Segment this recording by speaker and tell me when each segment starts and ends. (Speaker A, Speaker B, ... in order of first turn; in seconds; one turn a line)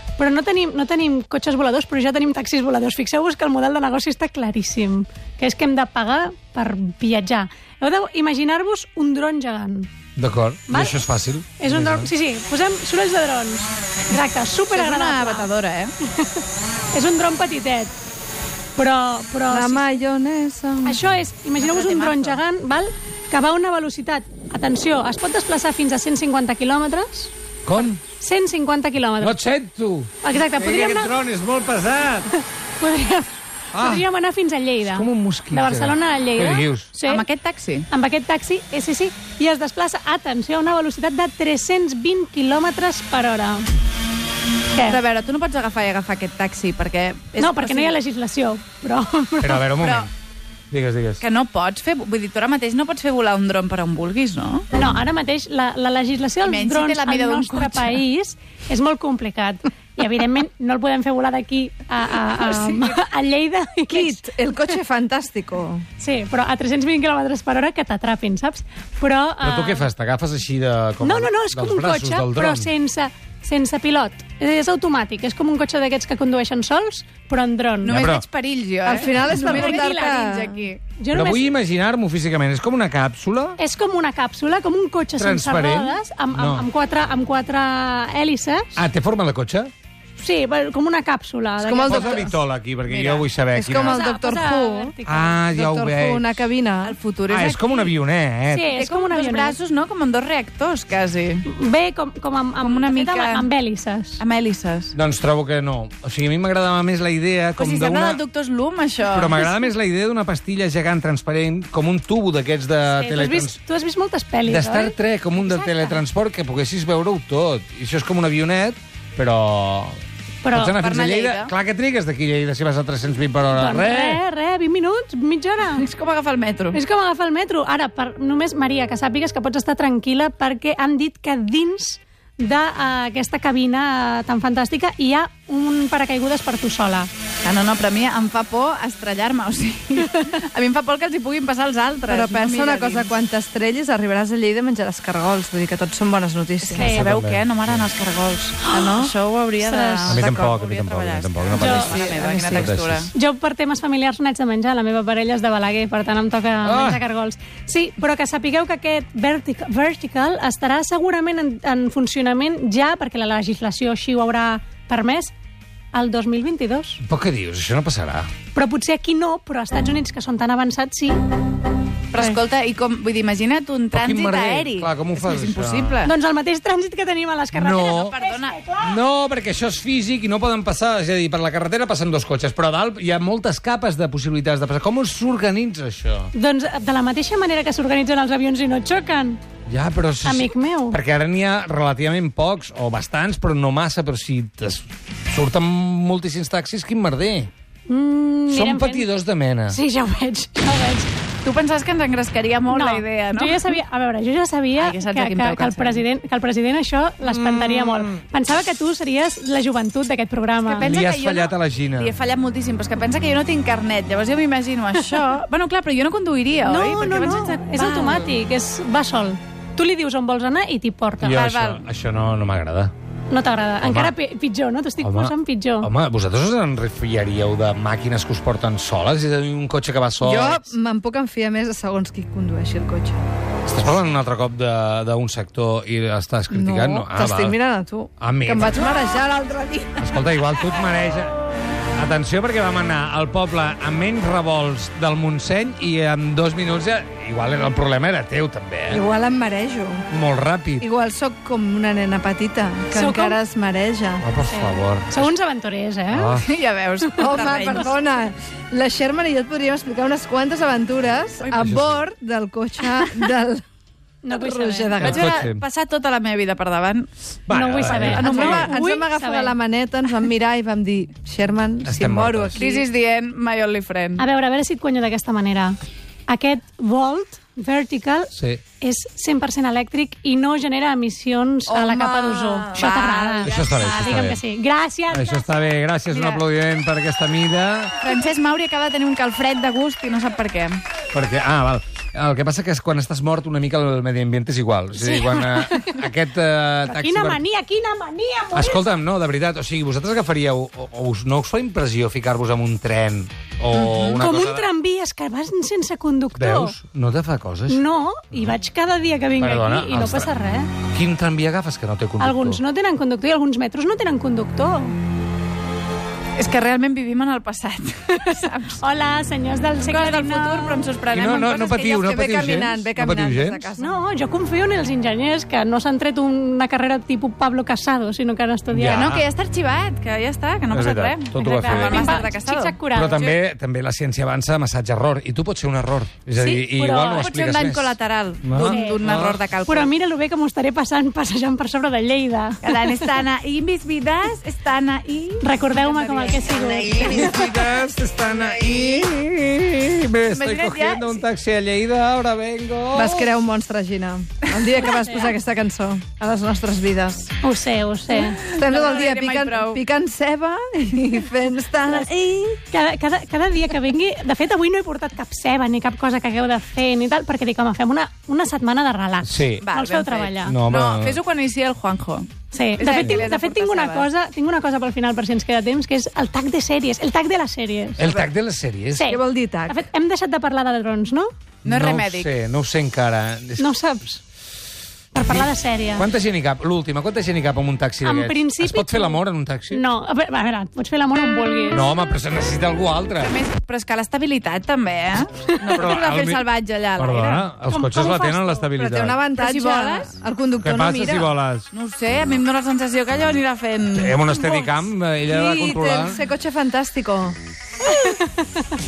Speaker A: 0.2-9.9
Speaker B: 10.2-12.1
Speaker A: 10.7-11.0
Speaker A: 11.6-15.5
Speaker C: 14.7-15.9
Speaker A: 16.1-16.4
Speaker A: 16.9-17.9
Speaker A: 18.8-19.8
Speaker D: 19.5-21.0
Speaker A: 20.8-29.4
Speaker C: 21.6-22.4
Speaker B: 27.7-28.0
Speaker B: 29.2-32.3
Speaker A: 30.2-31.1
Speaker A: 32.4-37.2
Speaker B: 33.7-34.0
Speaker B: 34.9-36.9
Speaker C: 37.0-37.9
Speaker A: 37.9-43.7
Speaker A: 44.7-45.0
Speaker C: 44.8-47.9
Speaker A: 47.4-49.6
Speaker B: 49.4-50.1
Speaker C: 49.8-50.1
Speaker B: 50.7-51.2
Speaker C: 51.2-54.7
Speaker A: 54.7-64.2
Speaker C: 56.5-58.0
Speaker D: 62.4-63.0
Speaker D: 63.9-65.8
Speaker A: 66.0-69.9
Speaker B: 69.4-72.7
Speaker A: 71.0-78.0
Speaker C: 77.8-80.8
Speaker B: 77.9-78.2
Speaker D: 78.8-80.7
Speaker A: 78.9-80.2
Speaker A: 81.0-81.5
Speaker B: 81.1-83.6
Speaker A: 83.6-88.8
Speaker B: 85.2-86.7
Speaker B: 88.8-89.7
Speaker A: 90.2-92.3
Speaker D: 91.6-92.3
Speaker B: 91.8-94.0
Speaker C: 92.9-93.8
Speaker D: 93.6-95.0
Speaker A: 93.8-95.4
Speaker B: 95.0-96.5
Speaker D: 95.5-97.0
Speaker C: 96.8-97.9
Speaker B: 97.3-98.7
Speaker A: 98.5-99.6
Speaker C: 98.7-101.5
Speaker A: 101.5-104.2
Speaker C: 102.6-103.5
Speaker C: 104.2-104.9
Speaker B: 105.0-108.2
Speaker C: 107.6-109.5
Speaker B: 109.1-113.6
Speaker A: 112.9-116.0
Speaker B: 114.5-120.0
Speaker A: 120.4-120.7
Speaker B: 120.5-124.2
Speaker C: 120.7-121.5
Speaker A: 123.5-125.9
Speaker C: 125.8-126.8
Speaker A: 126.7-137.1
Speaker C: 137.4-143.1
Speaker D: 142.1-146.9
Speaker C: 146.6-153.1
Speaker A: 146.7-147.0
Speaker B: 146.8-147.8
Speaker D: 148.7-149.1
Speaker A: 149.6-150.2
Speaker B: 150.1-153.1
Speaker A: 151.5-152.1
Speaker D: 151.7-152.8
Speaker A: 153.1-165.3
Speaker B: 156.6-157.0
Speaker A: 165.9-167.0
Speaker B: 167.0-168.3
Speaker A: 168.5-171.2
Speaker C: 172.1-176.1
Speaker B: 173.9-176.0
Speaker A: 176.0-179.0
Speaker B: 177.5-178.2
Speaker C: 177.7-178.6
Speaker B: 178.8-186.3
Speaker A: 186.3-189.4
Speaker B: 189.7-197.5
Speaker A: 190.2-191.0
Speaker A: 197.9-199.1
Speaker B: 198.5-199.8
Speaker A: 199.7-201.1
Speaker C: 201.4-203.8
Speaker A: 202.7-210.9
Speaker C: 204.8-206.0
Speaker B: 207.3-208.1
Speaker C: 210.6-218.3
Speaker B: 210.8-212.2
Speaker A: 216.7-221.4
Speaker B: 221.2-222.9
Speaker C: 221.3-221.8
Speaker A: 223.3-225.9
Speaker B: 223.8-224.1
Speaker B: 225.0-230.6
Speaker D: 230.2-233.2
Speaker B: 233.7-237.6
Speaker D: 236.5-240.2
Speaker B: 238.2-238.9
Speaker B: 240.0-241.4
Speaker B: 241.9-249.0
Speaker D: 248.9-250.0
Speaker B: 250.1-250.9
Speaker D: 250.8-254.2
Speaker A: 252.9-253.4
Speaker B: 254.2-255.3
Speaker A: 254.5-256.4
Speaker B: 256.1-256.5
Speaker C: 256.4-258.0
Speaker D: 257.2-263.6
Speaker A: 257.3-257.9
Speaker C: 261.4-261.7
Speaker B: 261.5-262.0
Speaker A: 264.2-265.0
Speaker D: 264.3-265.3
Speaker B: 265.0-265.6
Speaker C: 265.0-267.1
Speaker B: 267.5-268.8
Speaker A: 267.5-269.6
Speaker C: 267.8-268.7
Speaker D: 268.0-272.9
Speaker B: 271.9-272.6
Speaker C: 272.6-274.2
Speaker A: 274.2-275.8
Speaker A: 276.3-285.5
Speaker B: 278.4-278.6
Speaker D: 281.7-283.0
Speaker C: 282.7-284.3
Speaker B: 283.4-284.4
Speaker B: 285.1-287.9
Speaker C: 286.1-286.4
Speaker C: 288.0-290.8
Speaker B: 291.1-297.4
Speaker A: 294.9-296.1
Speaker A: 296.9-298.9
Speaker B: 298.5-304.7
Speaker D: 303.8-304.2
Speaker A: 304.1-306.8
Speaker B: 306.4-307.8
Speaker A: 307.7-310.7
Speaker B: 309.4-310.3
Speaker B: 310.9-312.6
Speaker A: 312.2-315.0
Speaker C: 316.4-318.8
Speaker A: 318.3-320.9
Speaker C: 319.8-322.1
Speaker B: 321.1-323.7
Speaker D: 322.0-323.9
Speaker A: 323.8-329.1
Speaker B: 328.7-329.2
Speaker C: 328.9-333.4
Speaker B: 330.7-332.2
Speaker A: 331.4-333.3
Speaker B: 332.9-339.4
Speaker A: 336.4-337.3
Speaker C: 337.1-339.9
Speaker A: 338.6-339.1
Speaker A: 339.7-343.1
Speaker C: 342.6-345.5
Speaker A: 345.4-347.5
Speaker D: 345.7-346.5
Speaker B: 346.9-353.3
Speaker C: 350.3-351.2
Speaker D: 352.9-357.3
Speaker A: 354.8-355.3
Speaker A: 357.4-358.4
Speaker C: 358.1-359.8
Speaker D: 358.5-362.1
Speaker A: 361.9-370.6
Speaker B: 369.2-369.7
Speaker C: 369.6-374.1
Speaker B: 370.4-371.2
Speaker A: 372.5-378.1
Speaker B: 378.0-379.1
Speaker D: 378.0-378.3
Speaker A: 378.9-381.3
Speaker D: 379.0-379.8
Speaker C: 381.6-382.3
Speaker B: 381.6-383.7
Speaker A: 383.6-384.2
Speaker A: 385.1-386.1
Speaker B: 385.3-389.8
Speaker A: 388.0-391.9
Speaker B: 391.7-393.4
Speaker C: 393.2-397.5
Speaker B: 395.6-399.2
Speaker A: 397.7-398.7
Speaker D: 398.7-401.3
Speaker C: 399.4-400.2
Speaker B: 400.6-401.7
Speaker C: 401.7-404.4
Speaker B: 403.9-406.2
Speaker D: 405.3-407.4
Speaker A: 407.9-408.3